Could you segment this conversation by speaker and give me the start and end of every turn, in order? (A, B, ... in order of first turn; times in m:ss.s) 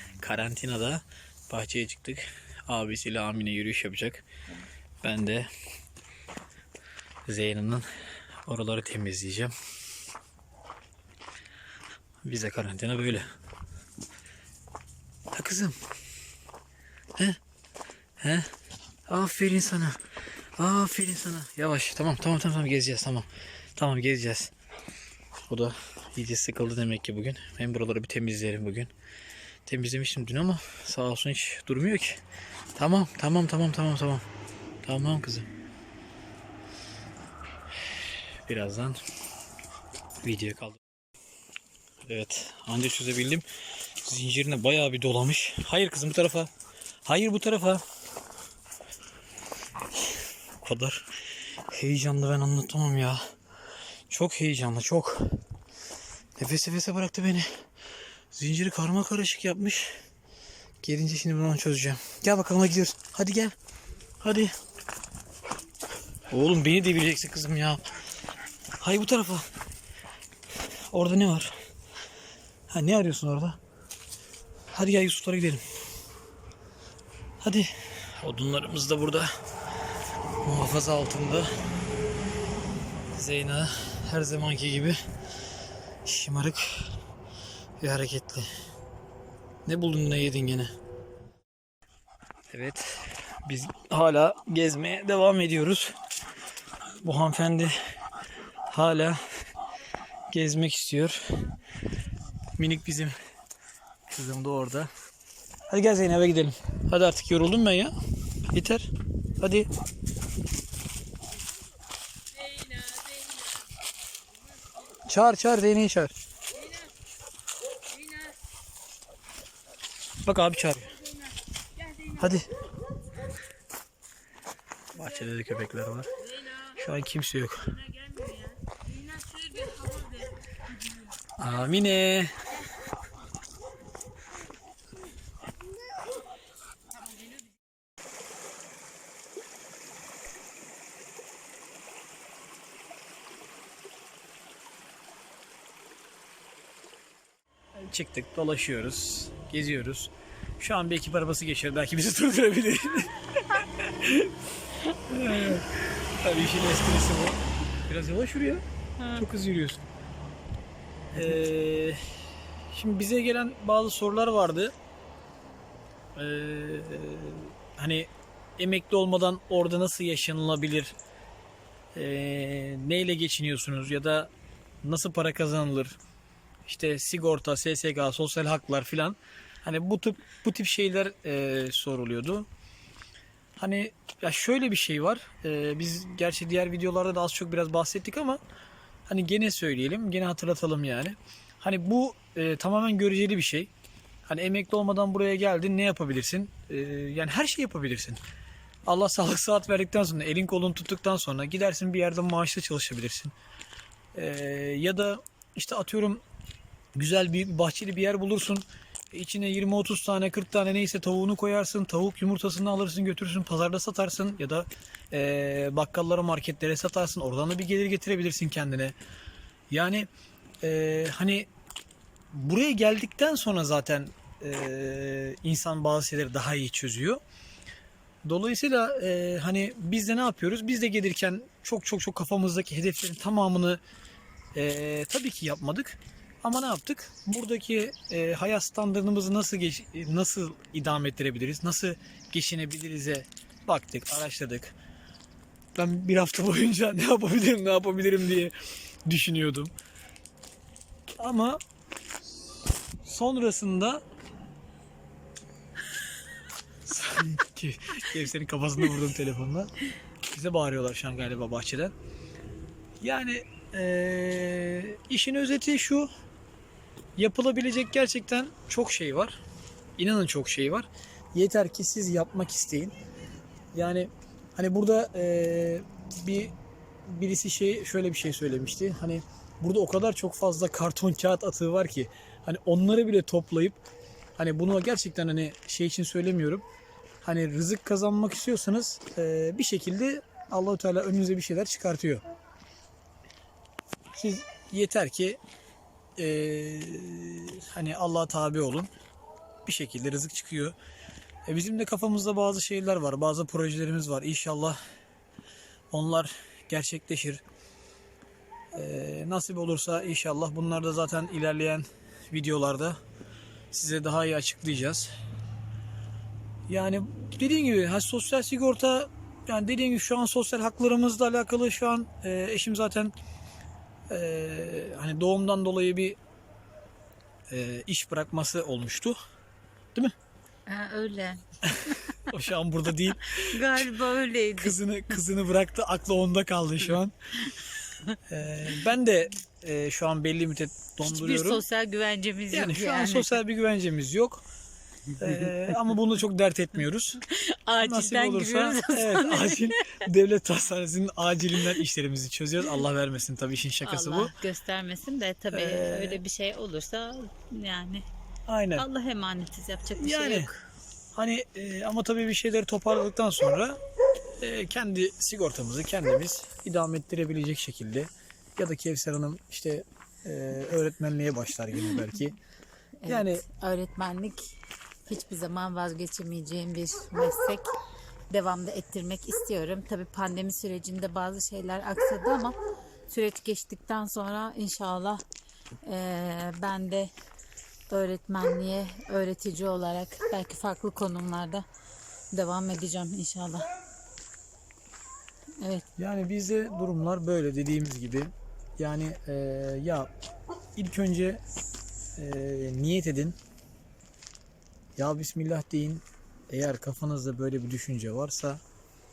0:00.2-0:04.3 A
0:05.0-0:05.5 A
0:07.3-0:07.8 A
0:08.4-0:09.5 A
0:12.2-0:13.3 A
0:15.3-0:15.8 A
0:18.2-0:18.5 A
0:19.1-0:20.0 A
0:20.6-0:24.5 A
0:25.5-0:28.9 A
0:29.6-0:32.2 A
0:32.8-0:34.2 A
0:34.8-0:35.5 A
0:38.4-0:39.0 A
0:40.2-0:40.8 A
0:42.1-0:43.4 A
0:44.0-0:46.5 A
0:47.0-0:47.8 A
0:50.6-0:53.2 A
0:54.1-0:55.2 A
0:56.4-0:57.5 A
0:58.3-1:00.0 A
1:00.8-1:03.5 A
1:04.2-1:04.5 A
1:06.3-1:07.8 A
1:08.8-1:09.4 A
1:10.9-1:11.5 A
1:12.7-1:13.6 A
1:14.7-1:15.6 A
1:17.4-1:19.3 A
1:20.4-1:21.5 A
1:23.1-1:25.0 A
1:26.0-1:26.7 A
1:27.8-1:28.5 A
1:29.6-1:30.7 A
1:32.5-1:35.9 A
1:37.0-1:37.7 A
1:38.7-1:39.2 A
1:40.3-1:41.4 A
1:42.6-1:43.1 A
1:44.1-1:44.9 A
1:45.7-1:47.9 A
1:48.5-1:49.7 A
1:55.0-1:56.1 A
2:00.2-2:01.0 A
2:02.0-2:02.5 A
2:04.9-2:08.1 A
2:11.4-2:12.3 A
2:27.8-2:39.8 A
2:41.1-2:42.0 A
2:42.7-2:44.7 A
2:46.2-2:51.0 A
2:51.9-2:54.3 A
2:54.8-2:56.0 A
2:56.6-3:02.5 A
3:03.6-3:08.4 A
3:09.1-3:13.7 A
3:14.2-3:18.2 A
3:18.9-3:23.3 A
3:24.1-3:26.2 A
3:26.9-3:39.0 A
3:39.7-3:40.1 A
3:40.6-3:41.5 A
3:42.3-3:47.2 A
3:48.2-3:53.8 A
3:54.5-4:04.8 A
4:05.7-4:08.5 A
4:09.0-4:09.7 A
4:11.2-4:11.6 A
4:13.0-4:14.0 A
4:16.8-4:19.7 A
4:20.3-4:21.9 A
4:23.0-4:26.1 A
4:27.2-4:29.4 A
4:30.0-4:32.9 A
4:33.7-4:36.5 A
4:37.0-4:43.8 A
4:44.4-4:46.6 A
4:47.2-4:52.2 A
4:54.1-4:55.4 A
4:56.2-4:58.9 A
4:59.6-5:00.7 A
5:01.5-5:04.8 A
5:05.9-5:07.4 A
5:08.7-5:13.0 A
5:13.7-5:15.1 A
5:16.7-5:23.1 A
5:24.1-5:26.2 A
5:27.5-5:29.2 A
5:30.7-5:32.3 B
5:31.6-5:33.9 A
5:33.1-5:34.8 B
5:34.6-5:37.1 A
5:38.3-5:41.6 A
5:41.0-5:43.4 B
5:42.5-5:44.4 A
5:45.1-5:47.2 A
5:47.3-5:50.0 B
5:47.8-5:54.3 A
5:53.8-5:58.0 B
5:55.5-5:56.2 A
5:58.5-5:58.8 A
5:58.8-6:00.6 B
6:00.0-6:00.5 A
6:01.1-6:03.8 A
6:04.4-6:12.4 A
6:13.0-6:14.5 B
6:13.0-6:13.4 A
6:15.1-6:17.7 B
6:18.3-6:22.6 B
6:23.1-6:25.2 B
6:25.8-6:27.1 B
6:27.9-6:31.6 B
6:32.3-6:33.7 B
6:35.6-6:35.8 B
6:36.0-6:40.1 A
6:40.8-6:41.4 A
6:42.2-6:43.4 A
6:45.0-6:48.6 A